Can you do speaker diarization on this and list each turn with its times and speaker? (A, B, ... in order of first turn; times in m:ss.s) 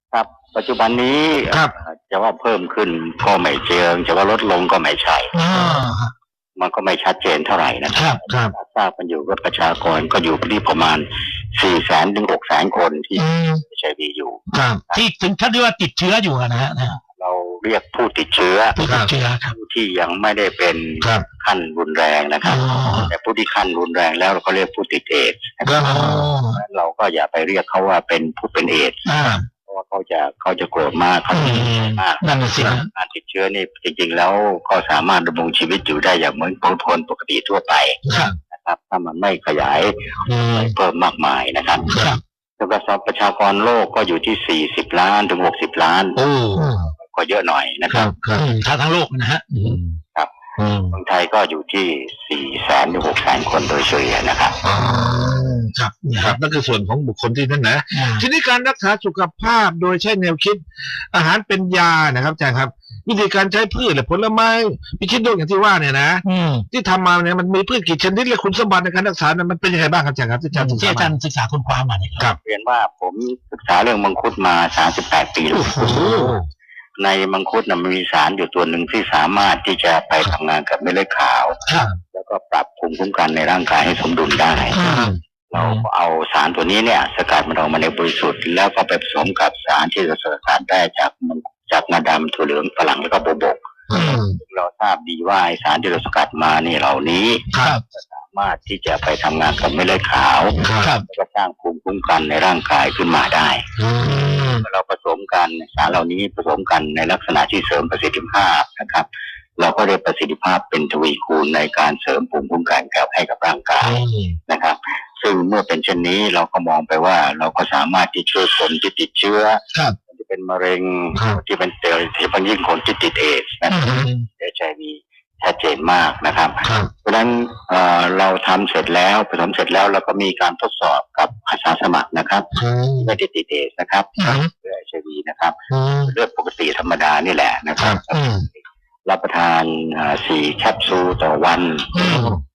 0:00.1-0:05.3 A
0:05.3-0:06.1 B
0:05.5-0:05.8 C
0:06.6-0:15.0 A
0:07.9-0:08.2 B
0:13.2-0:13.6 B
0:14.5-0:14.8 C
0:14.9-0:17.0 B
0:17.2-0:18.8 A
0:18.7-0:19.5 B
0:18.8-0:19.1 C
0:19.5-0:29.0 A
0:22.4-0:23.1 B
0:25.6-0:26.4 C
0:25.8-0:26.6 B
0:29.0-0:29.4 B
0:29.6-0:38.0 A
0:31.3-0:32.9 B
0:38.0-0:38.3 C
0:38.5-0:41.9 A
0:40.3-0:40.7 C
0:41.9-0:42.2 C
0:41.9-0:42.2 B
0:42.6-0:46.2 A
0:46.2-0:46.9 C
0:47.0-0:48.1 A
0:47.9-0:48.5 C
0:48.3-0:49.9 B
0:50.6-0:50.9 C
0:50.9-0:54.6 A
0:54.6-0:55.5 C
0:54.8-0:56.4 B
0:56.2-1:11.1 C
0:57.9-0:58.2 B
1:06.2-1:06.6 B
1:10.5-1:12.2 B
1:12.4-1:15.9 A
1:15.5-1:16.3 B
1:15.8-1:16.5 C
1:17.0-1:21.6 A
1:21.6-1:21.9 B
1:22.1-1:24.8 A
1:24.7-1:25.2 B
1:24.8-1:25.6 C
1:25.5-1:33.6 A
1:33.9-1:34.4 C
1:33.9-1:34.2 B
1:34.4-1:43.6 A
1:37.5-1:37.8 C
1:37.6-1:37.8 B
1:40.6-1:40.9 C
1:40.8-1:41.0 B
1:43.8-1:44.6 C
1:44.6-1:49.1 A
1:49.6-2:12.5 A
1:53.9-1:54.4 C
2:01.1-2:01.4 C
2:03.7-2:04.2 B
2:12.5-2:13.1 C
2:13.0-2:22.2 A
2:14.2-2:14.5 B
2:15.7-2:16.1 C
2:18.1-2:18.5 B
2:21.9-2:22.4 B
2:22.0-2:22.4 C